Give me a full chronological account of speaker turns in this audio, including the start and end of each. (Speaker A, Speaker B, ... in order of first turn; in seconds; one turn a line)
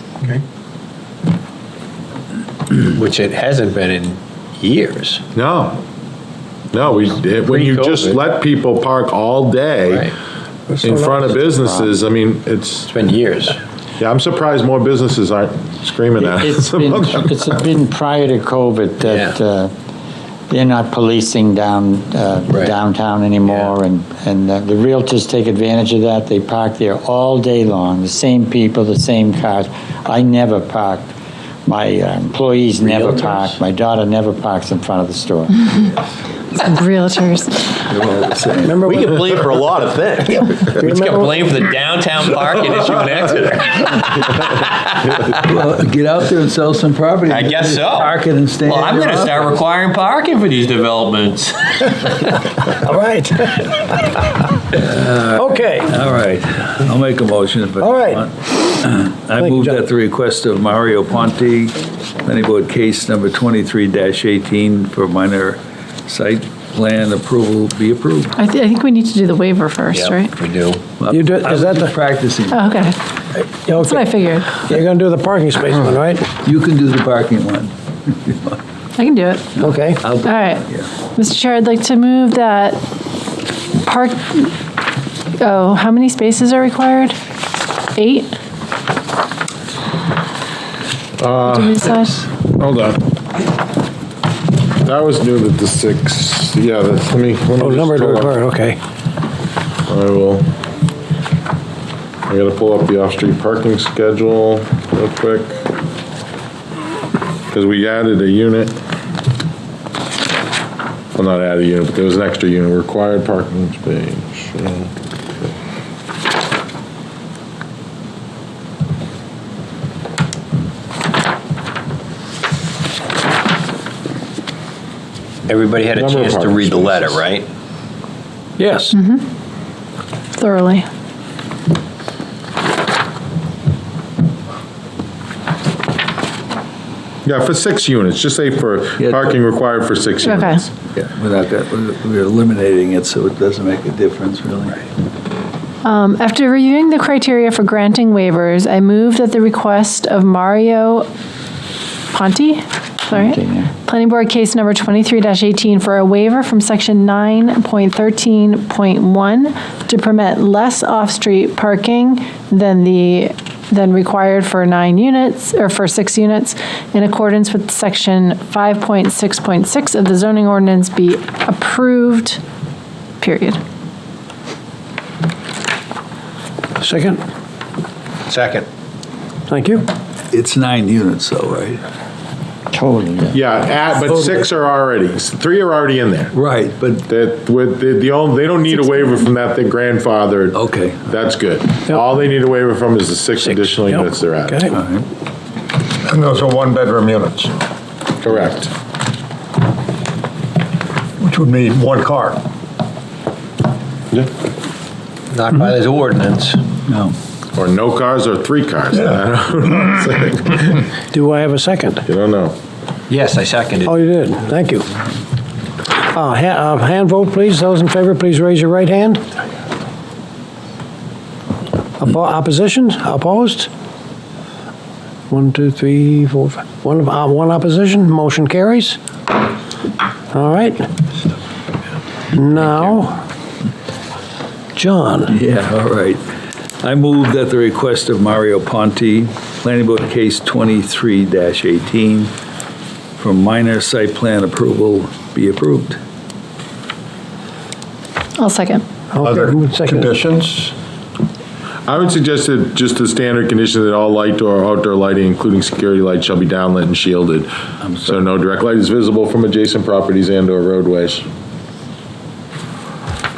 Speaker A: 2.7-5.2
Speaker B: 5.3-5.8
Speaker B: 6.7-10.1
Speaker A: 7.5-8.2
Speaker B: 10.8-12.9
Speaker C: 11.0-11.9
Speaker A: 12.9-13.6
Speaker B: 14.0-17.4
Speaker C: 16.2-19.7
Speaker A: 19.0-19.3
Speaker C: 20.5-31.1
Speaker C: 31.6-35.5
Speaker D: 32.8-33.5
Speaker E: 36.5-37.8
Speaker D: 37.9-38.9
Speaker F: 38.6-39.2
Speaker A: 39.1-44.2
Speaker F: 40.7-41.5
Speaker D: 45.3-49.6
Speaker A: 47.3-48.1
Speaker A: 49.1-51.5
Speaker F: 52.8-53.7
Speaker F: 55.1-55.9
Speaker D: 55.9-68.3
Speaker F: 57.8-58.2
Speaker F: 59.4-59.8
Speaker E: 68.4-70.3
Speaker A: 69.9-70.8
Speaker D: 71.0-72.7
Speaker F: 71.1-71.9
Speaker E: 72.5-73.0
Speaker F: 73.4-76.3
Speaker E: 73.7-74.5
Speaker D: 76.4-78.6
Speaker E: 79.0-79.6
Speaker D: 79.6-80.8
Speaker F: 79.6-80.1
Speaker E: 80.2-82.8
Speaker E: 83.8-84.5
Speaker E: 85.4-87.2
Speaker E: 87.9-88.3
Speaker B: 91.2-93.1
Speaker E: 91.4-92.2
Speaker B: 94.8-98.3
Speaker F: 97.6-98.8
Speaker B: 99.9-100.5
Speaker B: 102.3-105.6
Speaker B: 107.5-108.7
Speaker B: 111.2-114.9
Speaker A: 125.5-127.5
Speaker B: 125.9-127.2
Speaker F: 128.6-128.9
Speaker E: 128.9-129.2
Speaker E: 130.3-130.8
Speaker B: 137.2-140.7
Speaker D: 139.0-139.3
Speaker E: 140.2-140.6
Speaker D: 140.9-144.9
Speaker E: 145.8-151.1
Speaker E: 152.1-172.4
Speaker C: 153.1-153.7
Speaker E: 173.2-173.6
Speaker F: 176.8-177.2
Speaker A: 178.3-178.7
Speaker F: 179.5-179.8
Speaker D: 180.3-181.8
Speaker C: 182.7-183.4
Speaker B: 183.3-186.3
Speaker D: 186.3-187.0
Speaker B: 187.1-194.7
Speaker D: 190.5-191.0
Speaker F: 193.6-194.8
Speaker D: 194.7-195.0
Speaker G: 196.0-197.5
Speaker B: 198.2-198.7
Speaker G: 201.2-202.4
Speaker A: 205.3-206.6
Speaker D: 206.9-207.1
Speaker B: 207.6-210.8
Speaker F: 211.1-212.0
Speaker B: 212.1-212.6
Speaker A: 213.1-213.9
Speaker F: 213.8-214.8
Speaker F: 215.9-219.2
Speaker F: 222.0-223.7
Speaker F: 225.3-229.0
Speaker F: 230.3-230.8
Speaker F: 232.3-233.1
Speaker D: 232.5-233.0
Speaker F: 234.7-235.4
Speaker D: 235.3-236.2
Speaker D: 236.8-242.3
Speaker D: 243.2-246.0
Speaker E: 248.4-248.8
Speaker F: 249.1-250.1
Speaker G: 249.2-250.7
Speaker B: 251.9-257.5
Speaker B: 258.0-261.2